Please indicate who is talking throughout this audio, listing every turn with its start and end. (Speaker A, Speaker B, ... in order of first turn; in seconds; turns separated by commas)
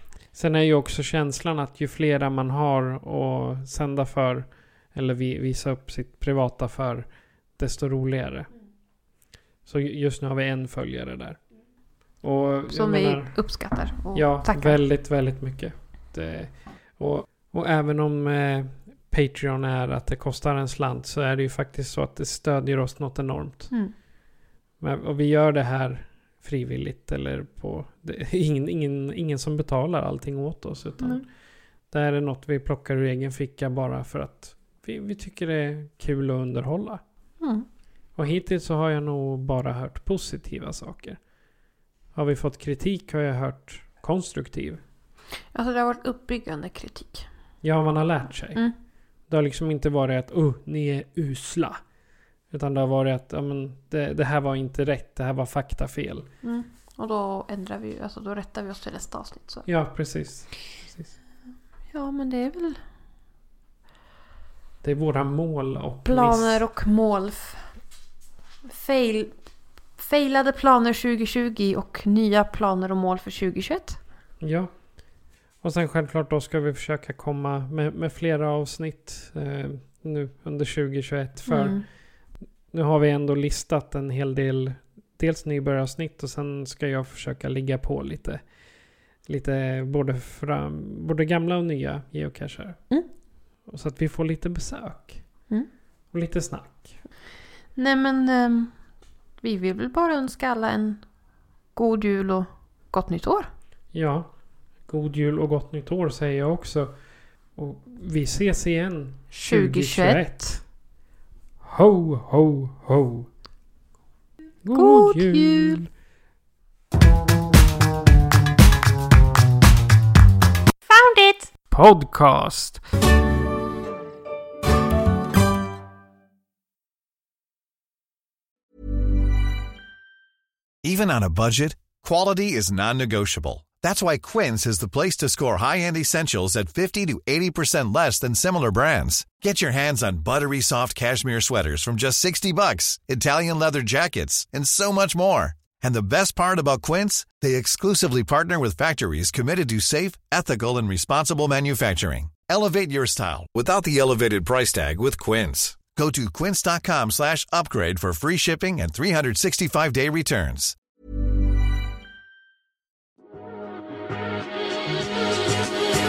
Speaker A: 0.3-8.7, Speaker A: 9.7-24.0, Speaker B: 12.7-14.8, Speaker B: 23.7-23.9, Speaker A: 24.8-37.0, Speaker B: 31.0-31.3, Speaker B: 37.4-37.7, Speaker A: 38.1-41.2, Speaker A: 42.1-44.8, Speaker B: 45.5-47.3, Speaker A: 47.6-48.7, Speaker A: 49.2-51.8, Speaker A: 52.5-56.3, Speaker B: 56.4-59.7, Speaker A: 59.7-61.2, Speaker B: 61.9-62.8, Speaker A: 64.8-66.7, Speaker B: 66.0-67.7, Speaker B: 68.7-69.4, Speaker B: 69.9-74.0, Speaker A: 74.4-75.0, Speaker A: 75.6-88.5, Speaker B: 81.5-81.8, Speaker A: 89.2-97.0, Speaker B: 97.7-101.1, Speaker B: 101.7-103.5, Speaker A: 103.9-110.7, Speaker B: 109.3-110.6, Speaker A: 111.6-113.3, Speaker A: 114.6-115.9, Speaker B: 114.7-115.8, Speaker B: 120.9-121.5, Speaker A: 121.7-122.8, Speaker C: 130.8-160.8